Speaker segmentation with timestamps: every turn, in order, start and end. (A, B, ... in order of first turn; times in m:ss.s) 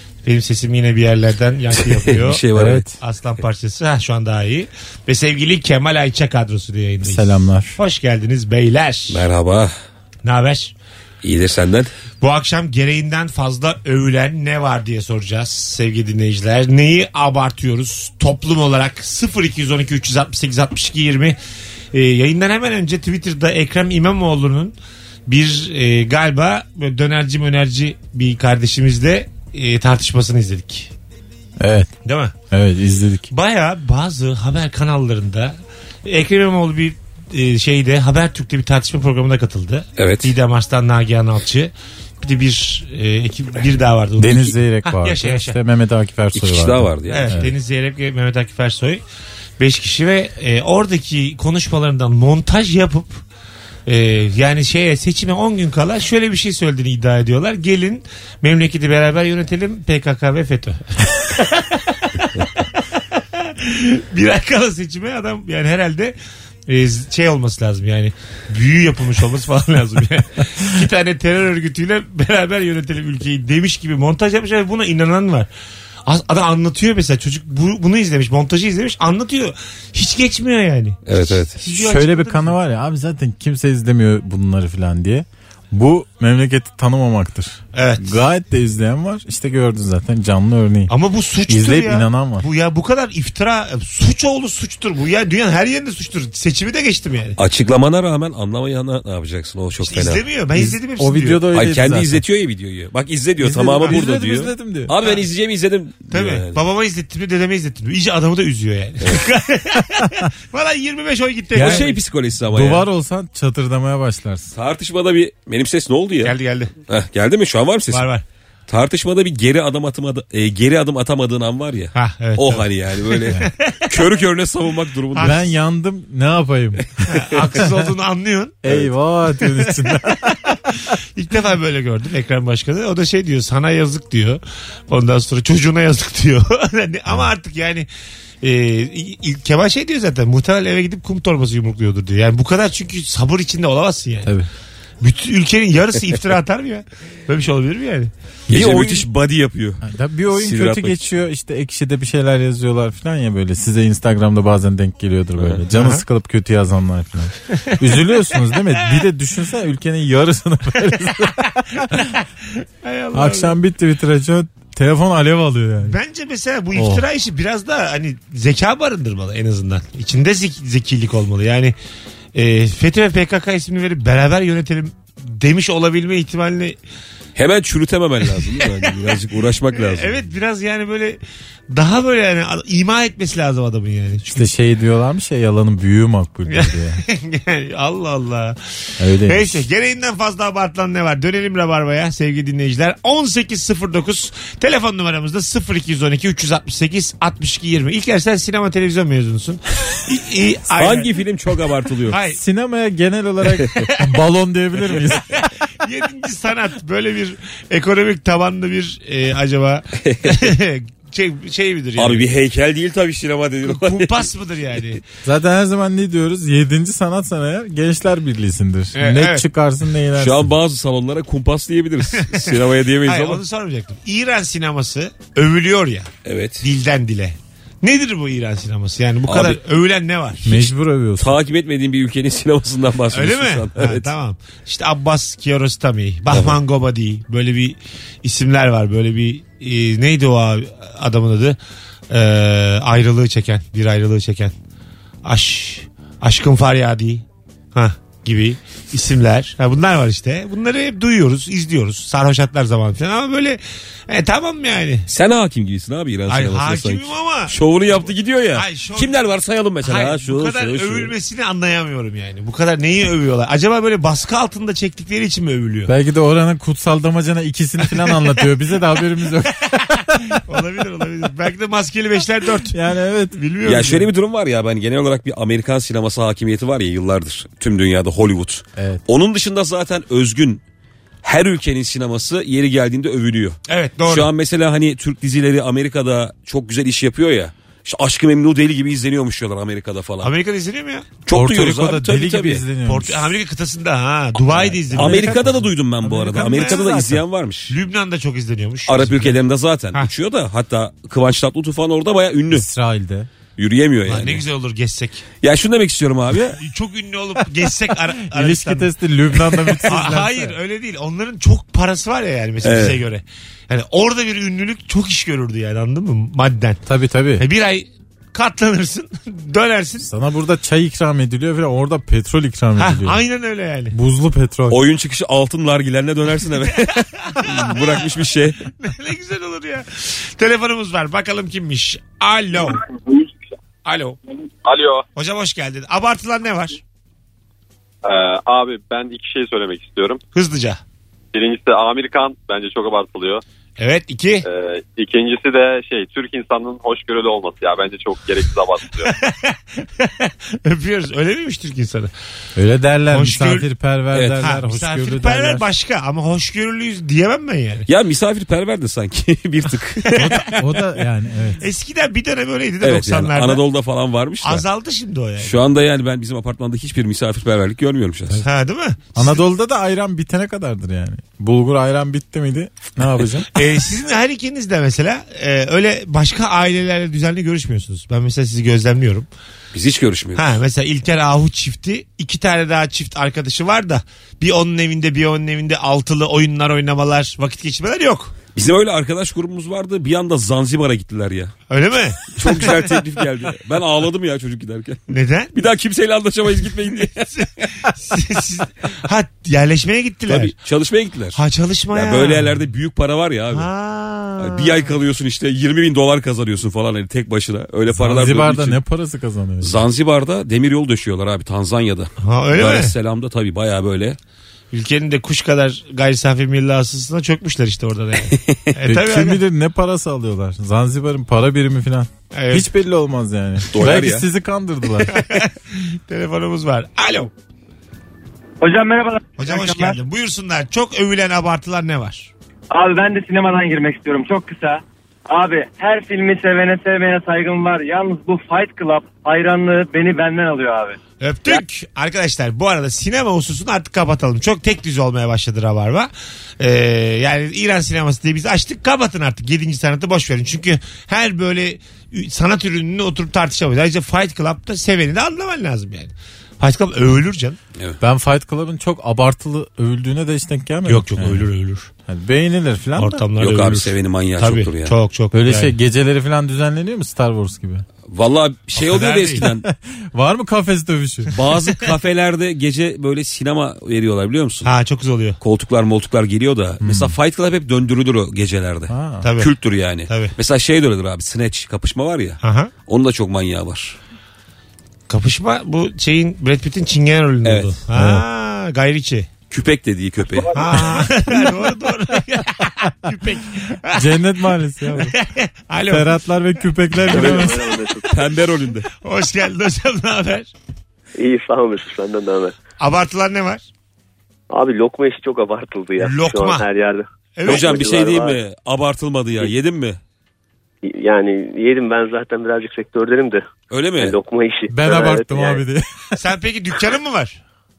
0:00.2-0:02.4 A
0:01.8-0:02.8 B
0:02.6-0:03.0 C
0:03.0-0:09.2 A
0:07.0-0:07.8 C
0:09.1-0:09.7 B
0:10.2-0:10.7 A
0:11.2-0:11.9 B
0:12.2-0:21.4 A
0:21.9-0:24.8 A
0:25.3-0:30.9 A
0:31.6-0:31.9 C
0:32.0-0:32.3 A
0:32.5-0:33.3 C
0:33.3-0:45.6 A
0:40.0-0:40.3 B
0:44.2-0:47.5 C
0:46.4-0:47.3 B
0:47.1-0:49.0 A
0:49.6-0:53.2 A
0:53.9-1:02.8 A
1:03.4-1:06.2 A
1:06.7-1:15.5 A
1:16.1-1:22.5 A
1:21.1-1:21.6 B
1:21.7-1:30.9 C
1:27.7-1:28.2 A
1:30.9-1:37.4 A
1:31.5-1:32.4 C
1:37.4-1:40.2 B
1:39.8-1:41.5 A
1:40.6-1:42.2 C
1:41.5-1:46.6 B
1:43.4-1:44.9 C
1:46.1-1:52.0 A
1:51.6-1:51.9 C
1:51.6-1:52.9 B
1:52.5-1:54.5 C
1:54.5-1:56.4 B
1:56.2-1:56.7 A
1:56.9-1:58.1 B
1:57.9-1:58.2 A
1:58.7-2:05.4 B
2:02.0-2:04.1 A
2:05.1-2:05.4 A
2:05.2-2:06.9 C
2:07.0-2:07.4 B
2:07.0-2:08.8 A
2:07.4-2:07.7 C
2:08.6-2:10.6 C
2:09.4-2:10.6 A
2:11.2-2:17.9 A
2:18.4-2:24.3 A
2:25.0-2:28.8 A
2:28.5-2:29.8 B
2:28.5-2:28.9 C
2:29.8-2:42.1 C
2:30.3-2:31.1 B
2:35.7-2:36.0 A
2:42.8-2:43.6 A
2:43.1-2:46.0 C
2:45.8-2:51.8 A
2:46.8-2:47.0 C
2:52.4-2:56.8 A
2:57.4-3:00.2 B
2:58.4-2:59.1 A
2:59.8-3:04.5 A
3:04.3-3:07.0 C
3:06.5-3:08.6 A
3:09.0-3:09.6 C
3:09.2-3:21.1 A
3:20.8-3:22.2 B
3:22.1-3:22.4 A
3:22.4-3:25.5 C
3:25.4-3:32.2 A
3:30.0-3:30.5 B
3:32.0-3:34.3 B
3:33.6-3:35.0 A
3:35.2-3:40.5 C
3:39.0-3:39.5 A
3:40.2-3:43.4 B
3:42.1-3:46.1 A
3:46.2-3:46.7 B
3:46.6-3:50.7 A
3:49.3-3:49.6 B
3:50.4-3:51.4 C
3:51.2-3:54.1 B
3:53.1-4:01.6 A
3:56.3-3:56.6 B
4:02.1-4:04.5 A
4:05.2-4:15.1 A
4:15.1-4:21.1 B
4:16.3-4:17.6 A
4:18.5-4:19.2 A
4:19.8-4:25.9 A
4:25.9-4:30.4 C
4:29.9-4:32.8 A
4:32.7-4:33.4 C
4:33.3-4:34.1 A
4:33.6-4:40.6 B
4:38.8-4:39.0 C
4:41.2-4:50.3 B
4:43.7-4:44.3 A
4:50.2-4:51.1 A
4:51.2-4:52.6 B
4:51.3-4:53.3 C
4:52.9-4:55.7 A
4:54.5-4:55.5 C
4:54.9-4:57.7 B
4:56.0-4:57.2 C
4:56.3-4:57.1 A
4:57.7-4:59.4 A
4:58.9-5:02.7 B
5:02.5-5:03.3 C
5:03.6-5:04.4 B
5:04.1-5:05.3 A
5:05.4-5:06.6 B
5:06.6-5:08.9 A
5:08.3-5:10.5 C
5:09.5-5:16.8 A
5:12.6-5:13.0 B
5:16.9-5:17.4 C
5:17.4-5:20.1 A
5:20.0-5:23.2 C
5:22.8-5:24.0 A
5:23.9-5:24.8 C
5:24.7-5:28.6 B
5:26.8-5:27.9 A
5:28.8-5:32.8 A
5:33.8-5:34.2 A
5:34.6-5:35.0 D
5:35.2-5:36.8 A
5:38.0-5:40.2 D
5:40.3-5:40.8 A
5:41.3-5:43.4 D
5:43.8-5:44.4 A
5:44.4-5:49.2 D
5:49.0-5:52.1 A
5:52.6-5:55.6 C
5:53.1-5:53.7 A
5:54.1-5:54.4 B
5:54.4-5:57.9 A
5:57.9-6:00.4 B
6:00.0-6:00.6 A
6:00.2-6:01.6 C
6:01.6-6:03.6 A
6:02.8-6:04.6 B
6:04.4-6:05.6 A
6:05.4-6:08.4 B
6:08.4-6:09.3 A
6:09.2-6:13.5 C
6:13.5-6:19.3 A
6:19.7-6:20.5 B
6:20.4-6:28.4 A
6:28.6-6:31.5 B
6:31.7-6:33.0 A
6:32.3-6:37.5 B
6:35.1-6:35.5 A
6:37.3-6:40.5 A
6:40.3-6:41.4 B
6:41.4-6:42.6 A
6:41.9-6:43.7 B
6:43.5-6:44.9 A
6:44.4-6:48.8 B
6:47.9-6:49.8 C
6:49.6-6:54.2 B
6:52.2-6:52.9 A
6:54.7-6:59.4 A
6:58.3-6:58.6 B
6:58.8-7:05.2 C
7:02.3-7:02.7 A
7:03.7-7:04.3 B
7:05.1-7:07.3 A
7:08.6-7:10.0 E
7:09.4-7:12.3 A
7:12.7-7:21.6 E
7:21.2-7:37.6 A
7:38.0-7:41.5 C
7:40.9-7:41.9 A
7:42.1-7:43.2 C
7:43.0-7:45.8 A
7:43.4-7:45.0 B
7:45.3-7:47.8 C
7:48.1-7:49.7 B
7:48.8-7:49.5 A
7:49.7-7:51.4 C
7:51.3-7:54.7 B
7:54.6-7:55.4 A
7:55.4-8:04.0 B
7:56.8-7:57.1 C
7:58.9-7:59.2 C
7:59.2-7:59.5 A
8:00.1-8:00.3 A
8:02.4-8:02.7 A
8:05.1-8:09.3 A
8:07.4-8:07.8 B
8:07.9-8:08.2 C
8:09.5-8:11.2 B
8:10.5-8:14.3 A
8:14.0-8:15.1 C
8:15.0-8:17.4 A
8:15.9-8:17.6 C
8:17.1-8:18.9 B
8:17.1-8:18.0 F
8:19.0-8:20.5 A
8:21.2-8:22.6 F
8:22.8-8:23.6 A
8:24.5-8:28.4 F
8:26.0-8:26.7 A
8:27.4-8:28.0 A
8:27.4-8:30.0 B
8:30.8-8:33.5 F
8:33.7-8:34.2 B
8:34.0-8:35.6 F
8:34.7-8:36.0 C
8:36.2-8:37.4 A